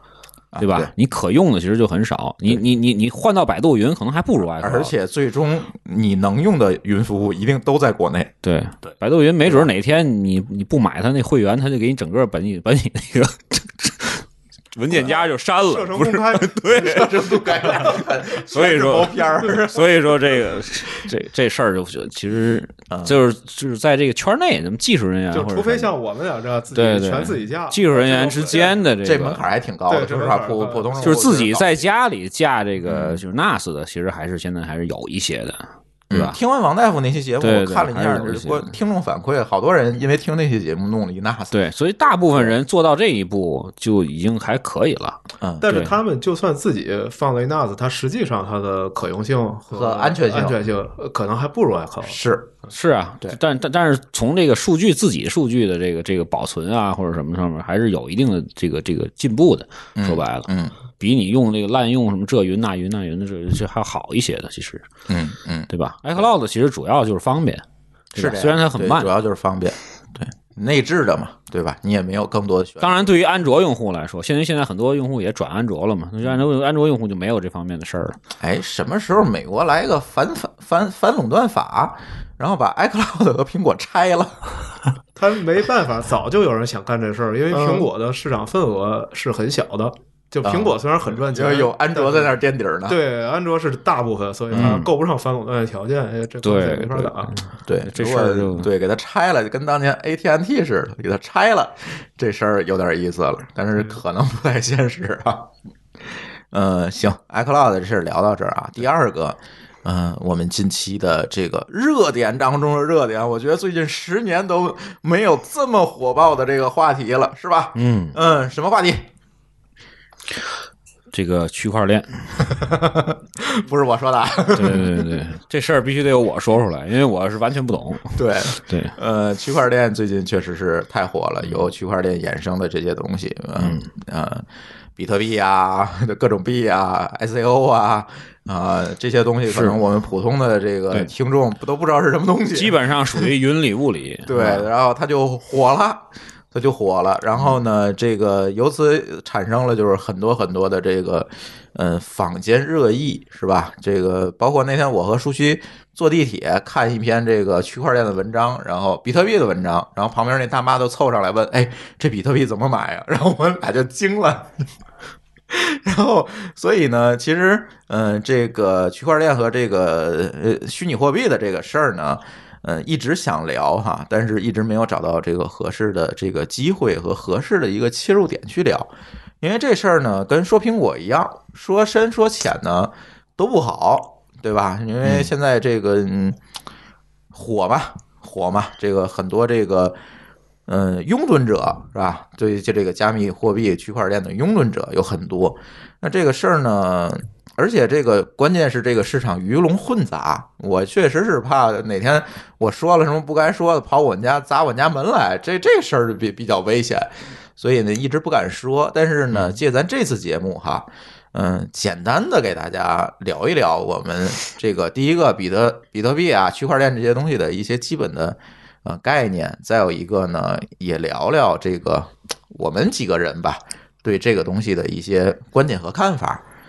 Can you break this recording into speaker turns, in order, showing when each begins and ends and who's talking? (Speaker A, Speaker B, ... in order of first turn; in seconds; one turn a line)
Speaker A: 0.5-0.9
Speaker B: 0.6-4.9
Speaker A: 4.6-8.3
Speaker B: 8.4-25.9
Speaker A: 9.4-9.7
Speaker A: 14.9-15.2
Speaker C: 15.0-17.1
Speaker A: 16.7-20.4
Speaker A: 22.9-23.2
Speaker C: 25.3-28.8
Speaker B: 26.7-29.4
Speaker A: 29.0-31.9
Speaker C: 29.9-31.2
Speaker B: 31.0-36.4
Speaker A: 32.9-33.2
Speaker A: 36.1-41.6
Speaker B: 37.4-38.7
Speaker B: 41.5-45.9
Speaker A: 45.4-45.7
Speaker C: 45.6-52.7
Speaker A: 49.7-50.6
Speaker A: 52.0-52.6
Speaker B: 52.7-64.9
Speaker A: 60.0-60.8
Speaker A: 65.1-66.3
Speaker B: 65.7-69.1
Speaker A: 68.2-73.1
Speaker B: 72.8-78.2
Speaker A: 78.4-84.4
Speaker C: 85.2-97.4
Speaker A: 90.4-93.0
Speaker A: 94.5-94.8
Speaker B: 94.5-94.9
Speaker B: 96.4-98.7
Speaker A: 97.7-105.5
Speaker A: 106.5-119.1
Speaker B: 117.8-118.2
Speaker B: 121.1-122.8
Speaker A: 123.5-125.1
Speaker B: 124.5-128.9
Speaker A: 128.2-134.5
Speaker B: 131.4-131.7
Speaker B: 133.6-133.9
Speaker A: 135.0-143.3
Speaker B: 139.5-139.8
Speaker B: 142.5-144.7
Speaker A: 144.3-164.6
Speaker A: 165.5-186.4
Speaker A: 187.3-190.0
Speaker A: 190.7-226.4